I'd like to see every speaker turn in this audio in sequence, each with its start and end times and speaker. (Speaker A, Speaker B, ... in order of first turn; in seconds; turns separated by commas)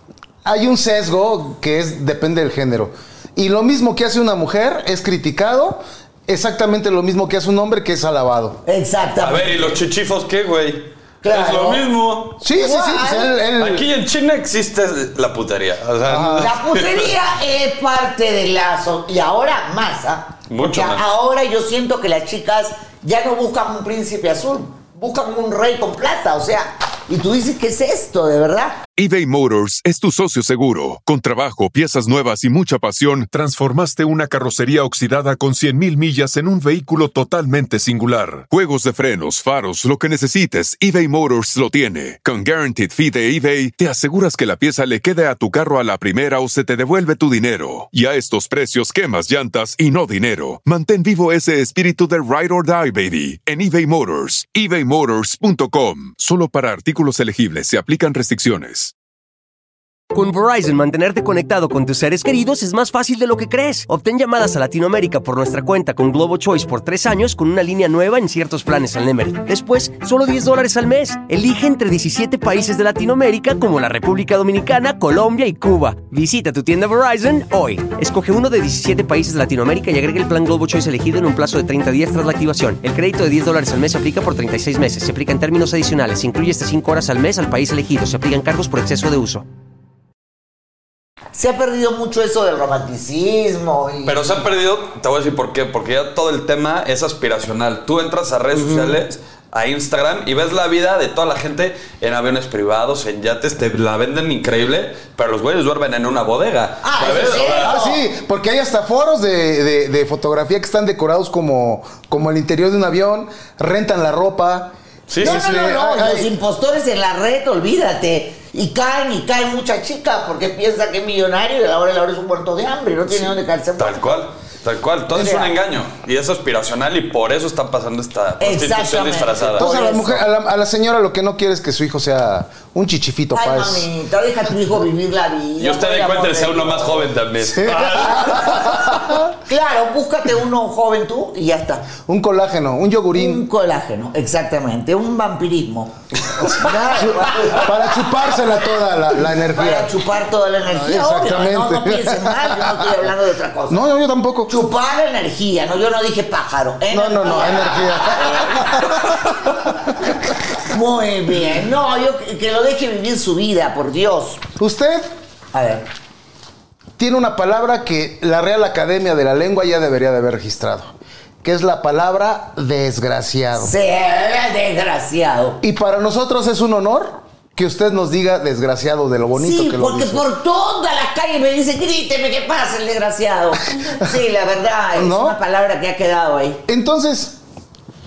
Speaker A: 0.4-8.6, Speaker B: 8.7-9.8, Speaker C: 9.2-12.4, Speaker B: 11.2-11.9, Speaker A: 12.4-13.9, Speaker B: 12.5-13.4, Speaker C: 13.6-17.1, Speaker A: 16.1-16.5, Speaker B: 16.4-28.8, Speaker C: 20.5-21.0, Speaker D: 29.0-58.9, Speaker E: 60.1-89.5, Speaker B: 91.3-94.3, Speaker C: 94.0-107.8, Speaker A: 98.5-99.0, Speaker B: 106.8-108.0, Speaker A: 107.6-116.3, Speaker C: 115.1-115.5, Speaker B: 115.2-124.2, Speaker C: 123.8-129.7, Speaker B: 125.1-125.5, Speaker B: 128.4-130.2, Speaker A: 129.6-133.9, Speaker B: 133.3-137.1, Speaker C: 135.6-139.0, Speaker A: 137.4-139.3, Speaker B: 138.0-138.5, Speaker B: 139.4-141.9, Speaker A: 142.1-143.4, Speaker B: 143.1-147.7, Speaker A: 147.0-149.9, Speaker B: 149.5-153.8, Speaker A: 150.7-153.0, Speaker A: 153.7-154.5, Speaker B: 154.5-159.2, Speaker A: 156.9-160.1, Speaker B: 160.7-164.4, Speaker A: 164.6-165.1, Speaker B: 165.5-165.9, Speaker A: 167.0-173.7, Speaker B: 173.5-175.6, Speaker A: 175.6-180.2, Speaker B: 179.3-186.6, Speaker A: 184.9-185.4, Speaker A: 186.7-187.4